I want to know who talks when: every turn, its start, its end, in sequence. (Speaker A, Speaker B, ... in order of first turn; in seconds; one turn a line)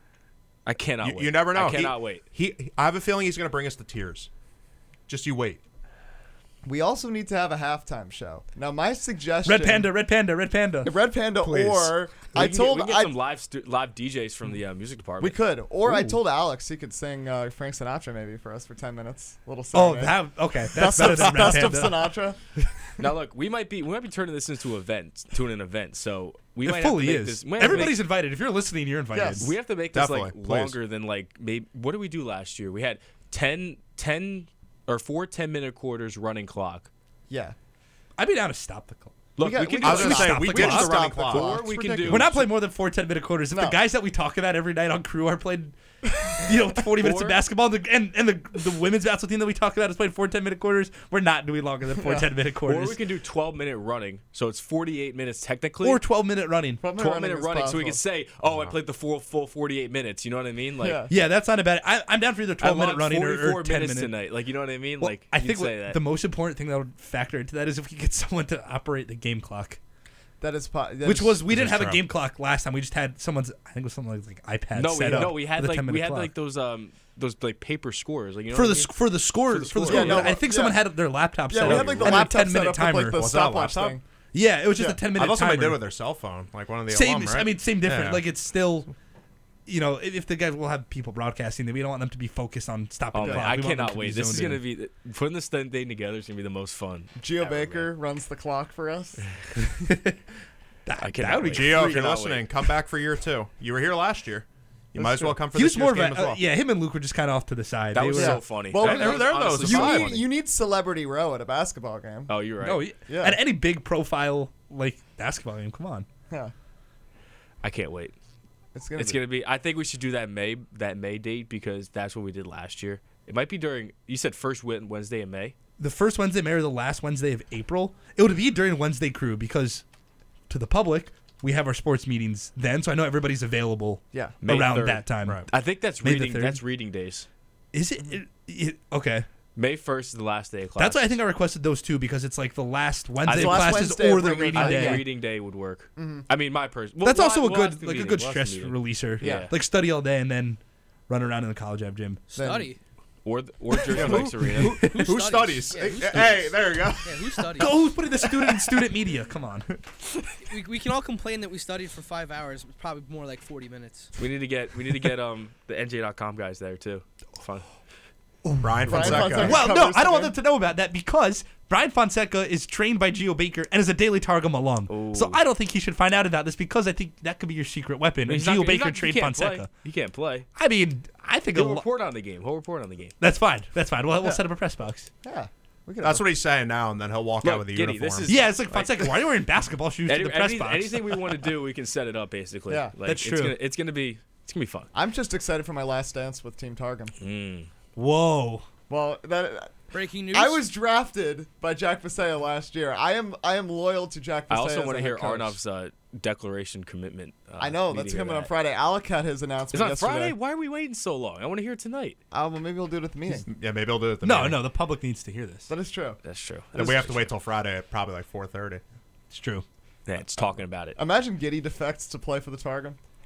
Speaker A: 0.7-2.2
Speaker B: 1.0-4.3
Speaker B: 5.1-5.6
Speaker C: 6.6-9.9
Speaker D: 9.4-10.9
Speaker C: 10.8-13.1
Speaker B: 11.4-11.9
Speaker A: 12.3-15.4
Speaker C: 15.2-22.6
Speaker D: 19.7-22.1
Speaker A: 23.0-28.0
Speaker D: 26.6-29.5
Speaker C: 27.6-27.9
Speaker C: 29.1-29.5
Speaker A: 29.4-36.9
Speaker B: 29.9-30.8
Speaker C: 37.3-37.5
Speaker D: 38.2-40.9
Speaker A: 39.4-42.3
Speaker C: 39.4-42.5
Speaker B: 39.8-42.3
Speaker D: 42.0-53.0
Speaker C: 43.5-43.8
Speaker A: 47.0-47.4
Speaker C: 52.0-52.3
Speaker A: 52.6-56.0
Speaker D: 55.8-56.8
Speaker C: 56.8-58.0
Speaker A: 56.9-61.0
Speaker B: 58.4-58.8
Speaker C: 60.8-61.2
Speaker D: 61.1-64.1
Speaker A: 62.6-66.0
Speaker D: 65.0-69.8
Speaker C: 70.4-71.4
Speaker D: 71.0-76.3
Speaker B: 71.5-72.0
Speaker A: 74.7-80.4
Speaker D: 78.5-83.2
Speaker C: 79.8-80.9
Speaker C: 81.5-84.0
Speaker B: 81.6-82.3
Speaker B: 83.1-84.0
Speaker D: 84.3-85.8
Speaker C: 84.7-85.0
Speaker B: 85.1-88.2
Speaker D: 86.9-88.9
Speaker D: 89.7-94.6
Speaker A: 93.1-97.9
Speaker C: 93.2-93.5
Speaker C: 97.2-99.7
Speaker D: 99.9-100.2
Speaker D: 100.8-102.1
Speaker A: 101.0-102.5
Speaker B: 101.5-106.4
Speaker C: 105.0-105.4
Speaker D: 105.5-108.5
Speaker A: 107.9-110.2
Speaker C: 108.2-112.3
Speaker B: 108.7-110.0
Speaker A: 112.3-112.8
Speaker D: 112.6-116.1
Speaker C: 113.1-113.4
Speaker A: 117.6-118.2
Speaker C: 118.7-119.2
Speaker A: 119.0-125.5
Speaker D: 125.8-129.8
Speaker D: 130.5-135.4
Speaker A: 134.4-137.3
Speaker D: 136.0-136.6
Speaker D: 137.7-139.3
Speaker A: 139.6-141.1
Speaker D: 140.8-145.0
Speaker A: 143.2-149.5
Speaker C: 143.3-145.1
Speaker C: 145.9-146.2
Speaker D: 147.0-152.2
Speaker C: 149.2-149.5
Speaker E: 152.3-152.8
Speaker C: 152.3-152.7
Speaker A: 153.2-154.8
Speaker B: 153.9-157.7
Speaker C: 154.0-154.3
Speaker D: 154.6-155.1
Speaker E: 154.8-156.5
Speaker E: 157.0-157.8
Speaker D: 157.6-159.7
Speaker E: 160.4-164.1
Speaker A: 164.2-167.7
Speaker D: 168.4-179.7
Speaker B: 168.6-169.6
Speaker C: 168.9-170.3
Speaker A: 174.9-175.4
Speaker A: 178.3-180.5
Speaker D: 180.6-181.8
Speaker A: 181.5-183.2
Speaker D: 183.2-185.1
Speaker C: 185.2-186.3
Speaker B: 186.0-188.3
Speaker A: 187.4-189.0
Speaker D: 188.3-191.4
Speaker A: 190.1-194.9
Speaker C: 192.7-192.9
Speaker D: 193.0-193.6
Speaker C: 194.9-197.1
Speaker A: 197.2-197.7
Speaker D: 197.9-198.7
Speaker C: 198.9-205.6
Speaker E: 199.9-200.7
Speaker A: 204.5-208.5
Speaker C: 207.6-210.3
Speaker A: 209.7-212.2
Speaker C: 212.3-213.4
Speaker B: 213.3-214.6
Speaker D: 214.2-215.7
Speaker C: 215.7-216.2
Speaker A: 216.2-217.3
Speaker C: 216.7-217.2
Speaker B: 216.7-218.8
Speaker D: 219.3-219.6
Speaker A: 220.1-221.0
Speaker C: 220.9-223.0